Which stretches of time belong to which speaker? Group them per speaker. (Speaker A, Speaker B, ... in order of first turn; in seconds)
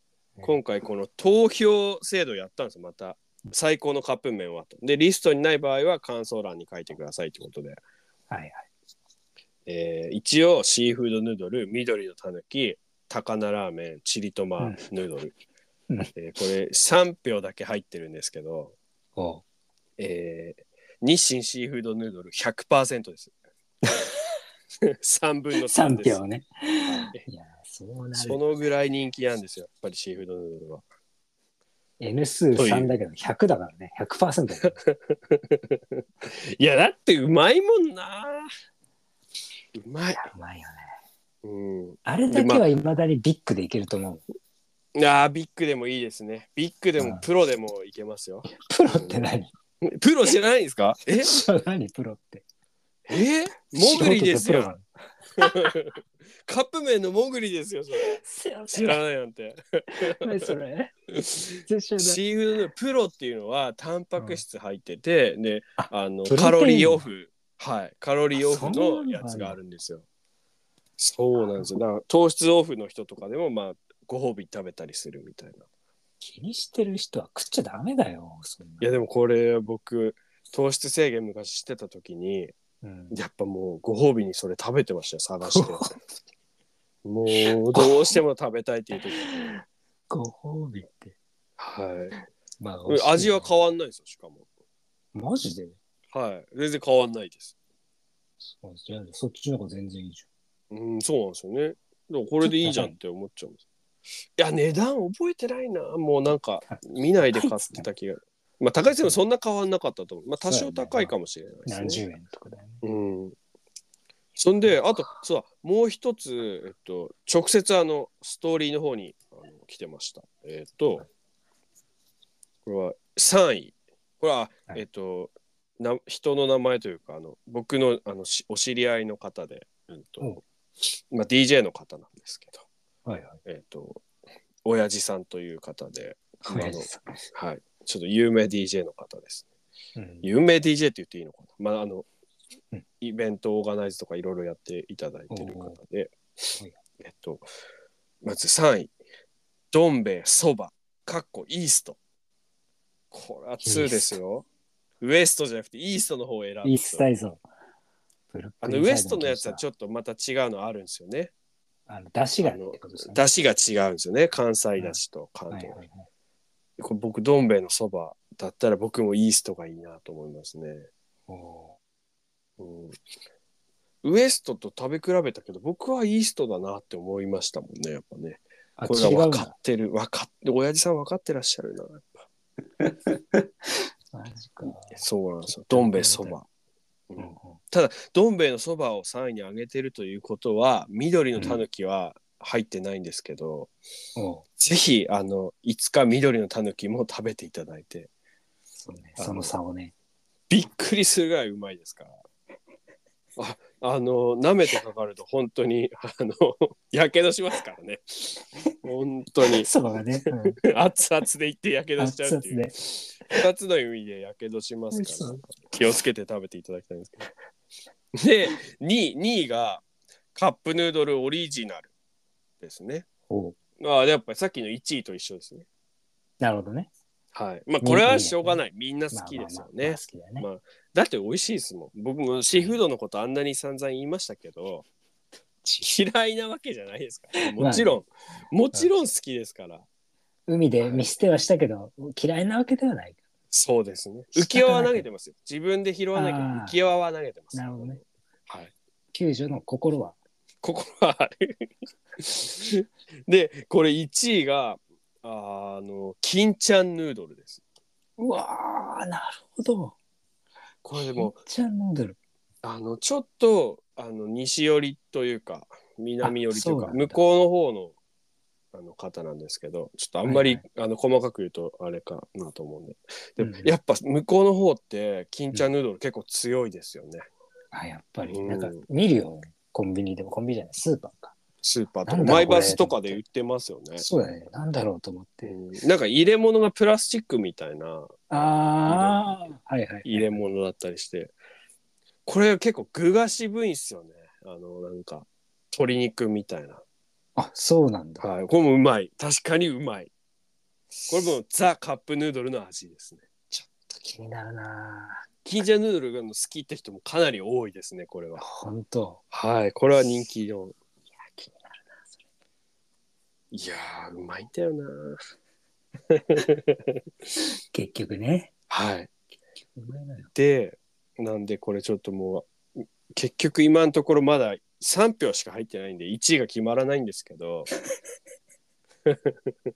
Speaker A: 0.4-7.8, 9.7-15.3, 16.1-18.7, 20.0-23.3, 24.9-26.2, 26.8-27.2, 28.1-30.8, 32.5-32.9, 34.8-38.5, 39.7-40.2, 41.4-42.6, 44.9-49.2, 49.8-51.4, 53.1-54.8, 55.4-55.9, 56.5-58.1, 58.7-60.5, 61.1-70.0, 71.0-75.7, 78.8-82.5, 83.1-85.9, 87.0-89.5, 91.6-92.1, 92.9-94.5, 96.1-97.5, 100.7-103.6, 104.4-112.0, 112.8-113.3, 114.3-121.0, 122.7-132.7, 133.4-134.0, 134.6-139.5, 140.2-142.1, 143.0-146.2, 147.0-147.4, 148.2-148.9, 149.7-152.0, 153.1-154.4, 155.0-157.0, 158.6-161.3, 162.4-165.8, 166.8-170.9, 172.6-173.0, 174.0-182.1, 184.9-186.4, 187.1-193.7, 194.6-198.1, 199.2-199.5, 200.5-202.2, 203.4-209.7, 210.6-217.3, 218.1-219.8, 220.3-221.9, 222.6-223.1, 223.8-225.7, 227.3-234.8, 235.8-239.8, 240.8-241.2, 243.5-248.7, 250.6-257.6, 260.8-261.4, 262.6-267.9, 268.7-277.2, 278.2-278.8, 281.6-284.0, 285.4-289.2, 290.0-291.3, 292.2-296.8, 298.2-300.1, 301.1-303.2, 305.4-308.4, 309.3-310.7, 313.5-315.2, 316.1-316.9, 318.7-319.1, 320.3-327.7, 329.1-329.5
Speaker B: 8.3-8.7, 14.6-14.8, 19.1-19.4, 25.7-28.4, 32.0-34.8, 40.1-40.9, 42.0-44.2, 47.0-47.2, 48.5-49.5, 51.1-52.4, 53.8-54.9, 55.4-55.8, 58.0-59.0, 59.9-60.9, 61.6-62.2, 64.2-64.4, 65.8-67.0, 68.3-69.6, 71.4-71.7, 76.2-78.9, 82.8-83.2, 85.4-85.9, 87.3-88.2, 89.2-91.1, 92.6-93.5, 95.1-95.8, 98.4-100.2, 102.4-103.0, 106.7-107.9, 108.9-109.2, 110.5-111.1, 111.7-112.8, 133.1-133.4, 136.4-137.2, 139.9-140.3, 145.3-145.8, 153.6-154.2, 156.6-157.4, 158.3-159.6, 161.9-163.2, 164.8-166.1, 171.3-171.8, 178.8-179.5, 182.8-185.0, 185.7-186.4, 187.2-187.6, 191.3-191.6, 194.2-194.4, 198.8-199.9, 209.5-210.6, 212.0-212.7, 214.9-215.6, 223.3-223.6, 226.4-226.9, 227.8-230.5, 237.4-238.0, 240.5-243.2, 244.3-245.0, 246.1-246.8, 247.5-248.0, 249.1-250.2, 258.2-259.9, 260.9-262.2, 266.2-267.2, 270.2-270.6, 273.4-273.7, 277.7-281.3, 282.1-283.2, 284.0-285.6, 288.3-290.4, 297.4-298.2, 303.5-305.3, 308.4-309.2, 311.2-312.2, 317.7-318.5, 319.7-320.3